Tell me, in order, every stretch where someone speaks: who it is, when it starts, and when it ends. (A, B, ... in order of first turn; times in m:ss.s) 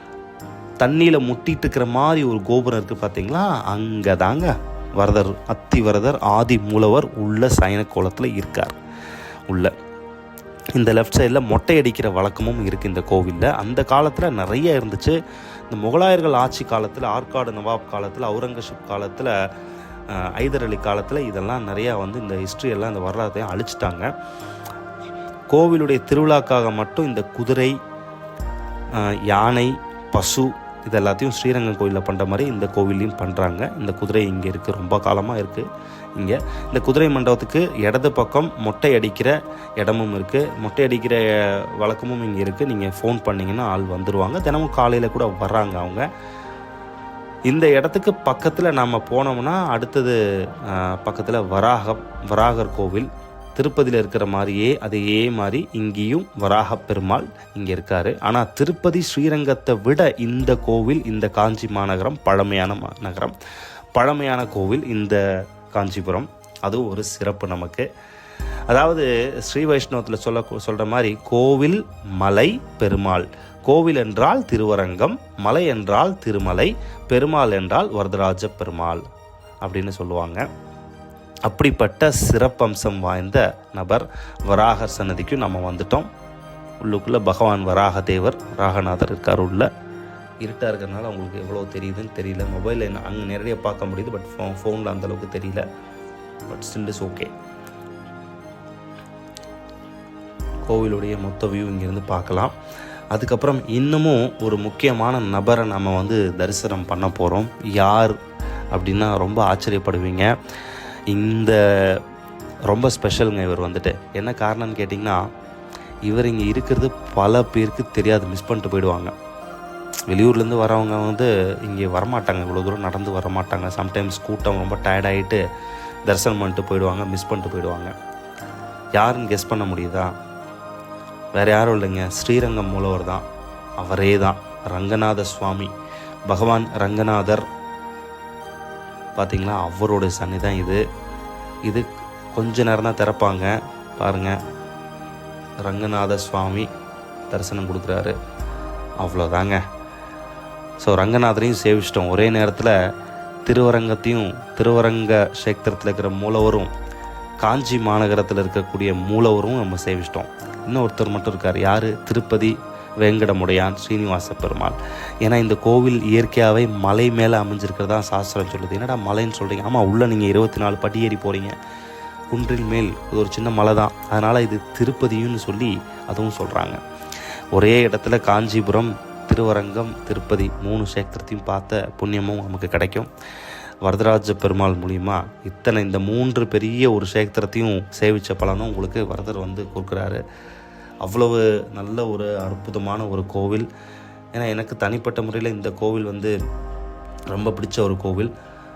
0:00.8-0:08.8 A
0:10.8-0:15.2 A
0:15.7-0:19.3 A
0:20.1-0:24.1 A
0:25.5-0:27.7 A
0:28.9-0:46.0 A
0:47.5-1:03.3 A
1:04.0-1:07.8 A
1:08.7-1:19.0 A
1:19.6-1:20.4 A
1:21.5-1:26.1 A
1:26.8-1:29.7 A
1:30.4-1:35.6 A
1:36.5-1:37.3 A
1:40.7-1:42.5 A
1:43.1-1:48.1 A
1:48.7-1:50.3 A
1:51.1-1:51.6 A
1:52.7-1:55.2 A
1:56.0-1:59.1 A
2:00.1-2:05.4 A
2:06.0-2:07.9 A
2:09.0-2:10.1 A
2:11.3-2:13.2 A
2:13.8-2:15.7 A
2:16.3-2:17.4 A
2:19.2-2:20.8 A
2:21.6-2:24.4 A
2:25.6-2:26.7 A
2:27.3-2:28.1 A
2:29.0-2:29.6 A
2:30.8-2:32.7 A
2:33.4-2:36.7 A
2:37.4-2:51.5 A
2:52.3-2:56.8 A
2:57.5-3:03.1 A
3:03.8-3:10.2 A
3:11.0-3:13.7 A
3:14.3-3:16.3 A
3:17.3-3:18.3 A